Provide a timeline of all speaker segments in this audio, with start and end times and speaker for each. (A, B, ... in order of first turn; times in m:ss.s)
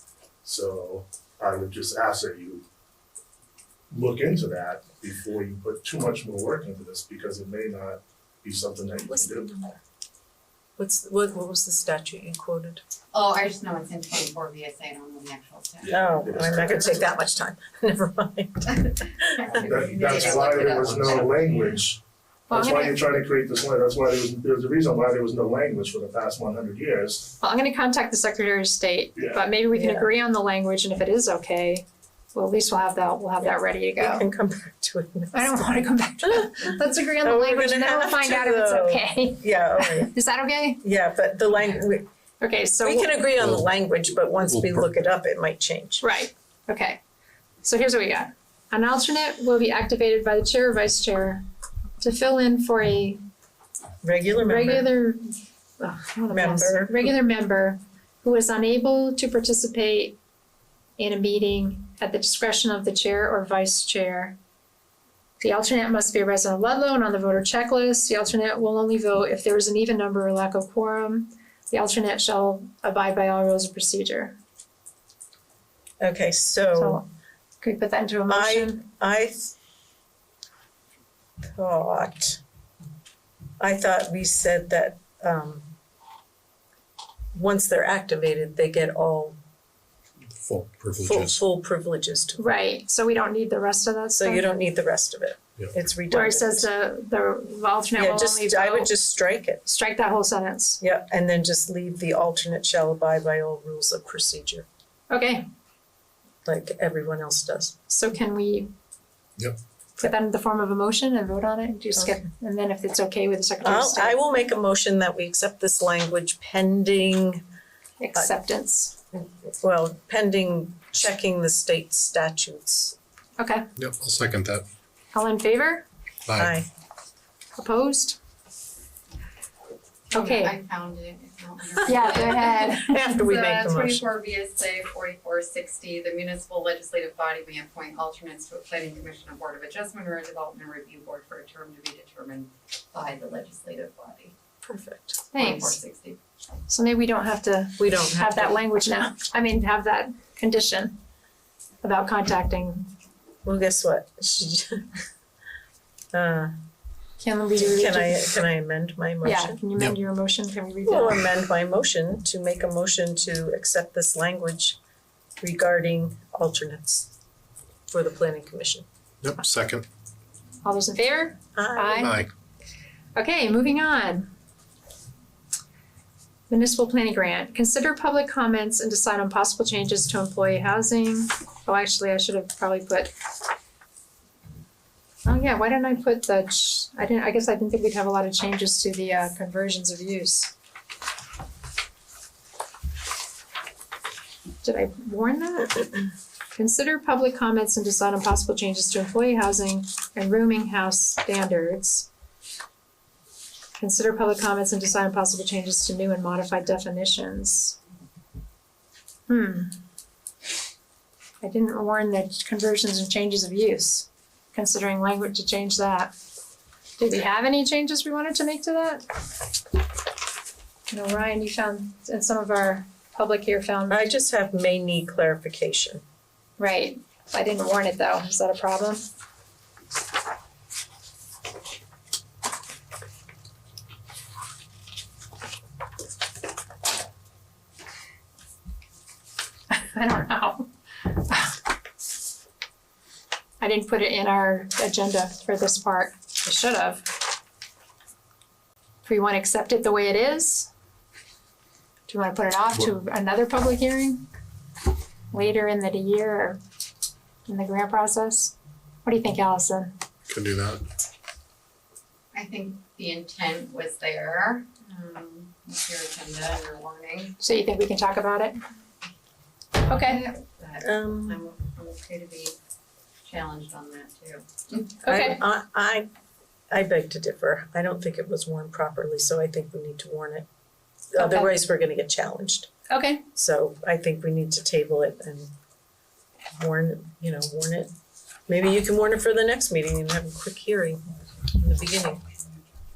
0:00.4-0:02.6 A
0:03.9-0:09.6 A
0:09.0-0:09.8 B
0:10.8-0:12.8 B
0:13.1-0:17.0 C
0:15.9-0:16.9 A
0:15.9-0:19.4 B
0:19.4-0:21.4 C
0:19.5-0:27.3 A
0:22.5-0:23.0 D
0:27.4-0:34.2 D
0:29.2-0:29.4 A
0:29.7-0:30.1 B
0:33.4-0:40.1 B
0:35.3-0:40.8 D
0:40.8-0:42.1 B
0:42.4-0:43.1 D
0:42.8-0:46.0 B
0:43.4-0:43.7 E
0:44.4-0:44.9 E
0:46.0-0:47.0 D
0:47.6-0:51.4 D
0:52.0-0:53.2 D
0:54.0-0:54.9 B
0:54.4-1:00.2 D
0:56.3-0:57.1 B
1:01.0-1:04.4 D
1:05.4-1:14.4 D
1:16.0-1:17.0 B
1:16.7-1:17.1 D
1:17.6-1:18.8 D
1:18.3-1:19.5 B
1:21.5-1:22.4 B
1:23.6-1:25.7 B
1:27.3-1:29.4 B
1:30.3-1:31.4 E
1:31.0-1:32.5 B
1:32.4-1:34.5 D
1:34.2-1:36.7 B
1:36.1-1:38.9 D
1:37.9-1:39.6 B
1:39.6-1:40.8 D
1:40.8-1:44.6 B
1:45.1-1:45.4 D
1:46.4-1:47.7 B
1:47.9-1:48.7 D
1:50.0-1:54.2 D
1:51.9-1:52.2 B
1:53.6-1:57.4 B
1:58.0-1:58.9 D
1:59.1-2:02.9 B
2:03.4-2:03.7 D
2:03.8-2:04.7 E
2:05.1-2:05.8 D
2:06.3-2:06.6 E
2:06.4-2:06.7 B
2:07.6-2:08.2 D
2:10.1-2:10.6 D
2:10.1-2:24.3 C
2:11.8-2:13.3 D
2:12.7-2:14.0 B
2:24.6-2:25.2 B
2:25.3-2:25.8 D
2:25.3-2:26.2 C
2:26.7-2:31.0 D
2:27.8-2:28.6 B
2:31.8-2:32.9 D
2:33.4-2:34.9 B
2:36.1-2:36.6 B
2:37.2-2:38.4 D
2:37.6-2:39.6 B
2:39.2-2:41.2 D
2:40.8-2:44.8 B
2:45.4-2:47.1 B
2:47.9-2:48.8 B
2:49.2-2:49.8 E
2:50.6-2:52.2 D
2:51.6-2:52.1 B
2:52.0-2:52.3 E
2:53.1-2:54.3 D
2:56.5-3:03.1 D
3:05.2-3:10.5 D
3:14.6-3:22.1 D
3:23.8-3:27.8 D
3:29.3-3:29.8 D
3:31.4-3:36.1 D
3:37.0-3:39.0 D
3:40.9-3:44.1 D
3:43.9-3:46.0 B
3:46.6-3:49.0 D
3:59.7-4:01.6 D
4:03.6-4:07.1 D
4:09.0-4:10.7 D
4:12.1-4:14.2 D
4:15.3-4:16.6 D
4:17.5-4:18.5 D
4:19.0-4:19.9 D
4:20.3-4:20.8 E
4:22.3-4:27.3 C
4:27.4-4:28.6 D
4:29.8-4:32.5 C
4:29.9-4:30.2 D
4:30.8-4:31.4 B
4:33.2-4:34.9 C
4:35.0-4:35.4 D
4:35.1-4:36.1 B
4:36.7-4:40.4 B
4:41.1-4:42.7 B
4:41.2-4:41.5 D
4:42.9-4:43.2 D
4:43.3-4:45.5 B
4:46.5-4:47.9 B
4:48.5-4:51.0 B
4:51.6-4:52.2 B